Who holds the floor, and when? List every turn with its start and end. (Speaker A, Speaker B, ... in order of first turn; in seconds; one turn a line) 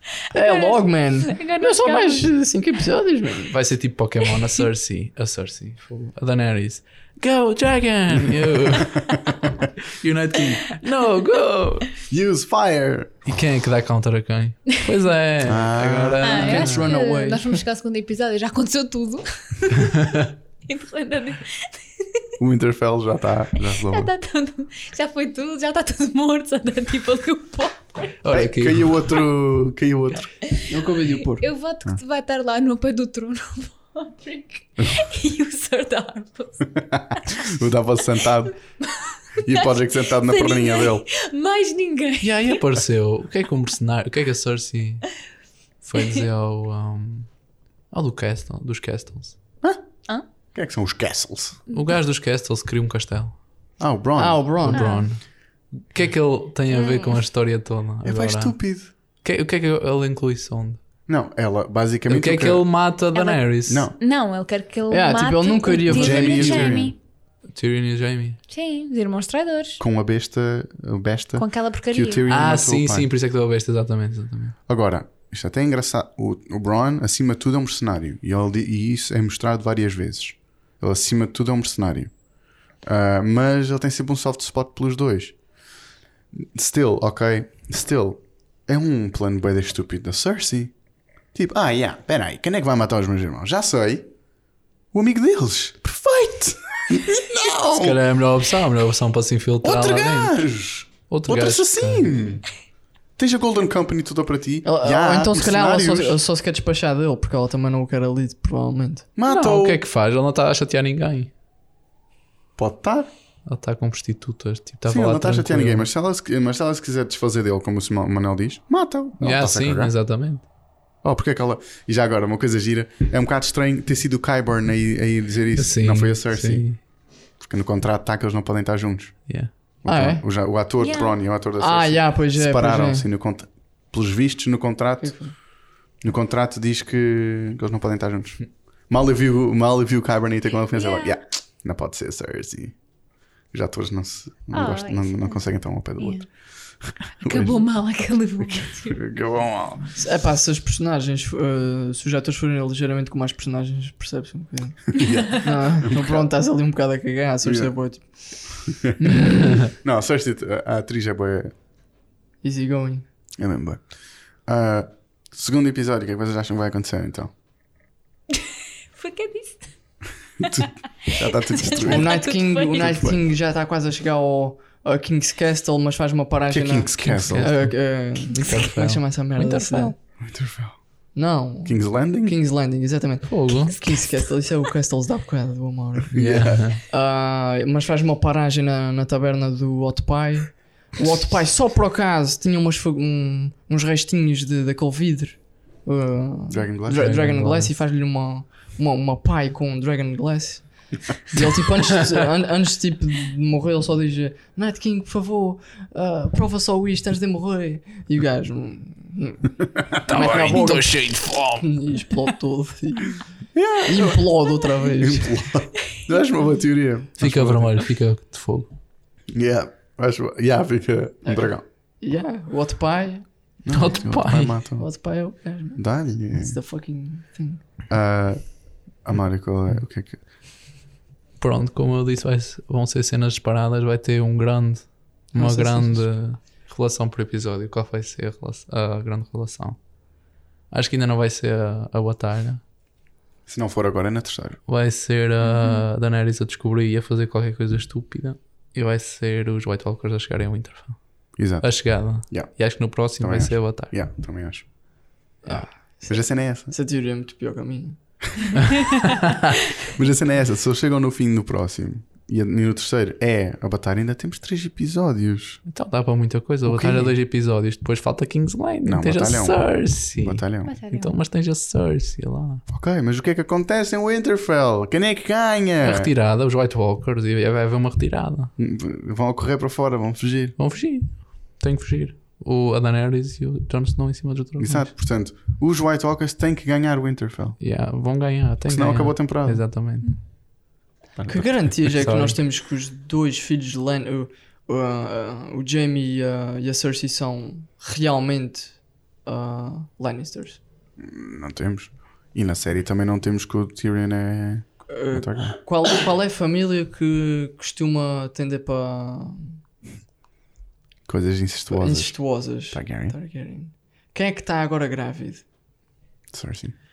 Speaker A: 0.3-3.5
Speaker B: 0.4-2.3
Speaker C: 3.5-11.9
Speaker D: 8.8-9.1
Speaker D: 12.1-13.2
Speaker C: 13.2-16.8
Speaker D: 15.4-16.7
Speaker B: 16.2-22.2
Speaker A: 16.4-17.6
Speaker C: 19.8-20.2
Speaker D: 22.4-24.1
Speaker B: 23.8-28.3
Speaker C: 28.2-28.9
Speaker D: 28.3-30.3
Speaker A: 30.7-31.5
Speaker B: 31.3-37.6
Speaker D: 36.7-38.6
Speaker B: 38.8-42.6
Speaker D: 39.4-41.0
Speaker C: 42.2-45.1
Speaker C: 45.8-47.3
Speaker C: 47.9-49.4
Speaker D: 50.5-51.6
Speaker B: 51.7-52.0
Speaker C: 51.7-53.4
Speaker D: 53.8-54.5
Speaker A: 54.2-55.0
Speaker C: 54.6-55.2
Speaker B: 54.7-55.0
Speaker C: 55.8-58.6
Speaker B: 56.7-57.2
Speaker D: 58.0-58.9
Speaker C: 59.2-60.8
Speaker D: 61.1-62.7
Speaker C: 62.1-63.9
Speaker B: 63.1-67.0
Speaker D: 63.7-63.9
Speaker A: 64.9-66.8
Speaker D: 65.8-66.9
Speaker C: 67.5-68.4
Speaker B: 68.5-69.8
Speaker D: 69.8-73.1
Speaker B: 71.3-72.2
Speaker C: 72.3-74.5
Speaker D: 74.7-82.2
Speaker D: 82.8-85.4
Speaker D: 86.3-90.7
Speaker D: 91.3-94.1
Speaker D: 94.9-98.0
Speaker C: 97.7-100.4
Speaker D: 99.6-102.5
Speaker C: 101.1-102.1
Speaker D: 103.2-106.2
Speaker A: 104.6-109.1
Speaker D: 109.2-109.8
Speaker C: 109.3-111.3
Speaker D: 112.6-113.1
Speaker C: 113.5-115.8
Speaker D: 114.9-119.9
Speaker C: 119.2-120.4
Speaker D: 121.0-126.8
Speaker C: 125.5-126.8
Speaker D: 127.4-135.3
Speaker A: 129.8-130.2
Speaker B: 130.8-131.1
Speaker A: 131.6-133.1
Speaker A: 135.0-135.3
Speaker D: 136.0-142.8
Speaker B: 140.7-141.2
Speaker D: 143.5-146.3
Speaker B: 144.5-145.4
Speaker B: 146.0-146.2
Speaker D: 146.8-147.6
Speaker B: 147.2-149.0
Speaker D: 148.5-149.9
Speaker A: 149.9-159.7
Speaker D: 154.9-156.2
Speaker D: 157.4-157.7
Speaker D: 158.7-161.5
Speaker A: 162.4-163.1
Speaker D: 163.4-167.3
Speaker B: 168.9-169.7
Speaker D: 170.4-172.2
Speaker B: 170.4-173.1
Speaker A: 171.8-179.9
Speaker D: 172.8-173.2
Speaker D: 176.5-177.5
Speaker C: 177.0-180.0
Speaker D: 180.2-180.8
Speaker A: 181.1-213.2
Speaker D: 181.6-182.3
Speaker C: 183.3-183.9
Speaker D: 186.1-186.7
Speaker C: 186.1-186.8
Speaker D: 196.5-197.2
Speaker C: 196.9-197.7
Speaker C: 210.0-211.7
Speaker D: 213.5-214.3
Speaker A: 213.8-215.4
Speaker D: 214.8-217.9
Speaker C: 217.2-218.7
Speaker D: 219.3-221.6
Speaker A: 222.0-223.2
Speaker D: 223.6-224.9
Speaker C: 223.7-224.6
Speaker A: 224.8-227.6
Speaker D: 225.8-226.6
Speaker D: 227.9-230.2
Speaker C: 231.4-239.8
Speaker A: 235.3-236.1
Speaker C: 240.7-242.6
Speaker D: 243.5-244.6
Speaker C: 244.7-251.0
Speaker B: 245.4-245.9
Speaker D: 251.4-252.6
Speaker C: 251.6-253.9
Speaker D: 253.2-254.7
Speaker A: 255.4-258.6
Speaker D: 256.0-256.7
Speaker D: 259.8-265.6
Speaker C: 265.6-272.6
Speaker D: 266.6-267.1
Speaker D: 268.8-270.8
Speaker B: 270.6-271.1
Speaker D: 272.7-276.1
Speaker C: 275.8-278.5
Speaker D: 278.6-280.6
Speaker C: 280.6-284.9
Speaker D: 284.6-287.6
Speaker C: 287.6-290.1
Speaker D: 288.6-289.7
Speaker D: 291.1-291.7
Speaker A: 291.3-300.6
Speaker C: 291.8-292.4
Speaker D: 301.0-305.6
Speaker A: 304.9-309.6
Speaker D: 311.1-313.1
Speaker A: 311.7-315.4
Speaker D: 316.3-316.7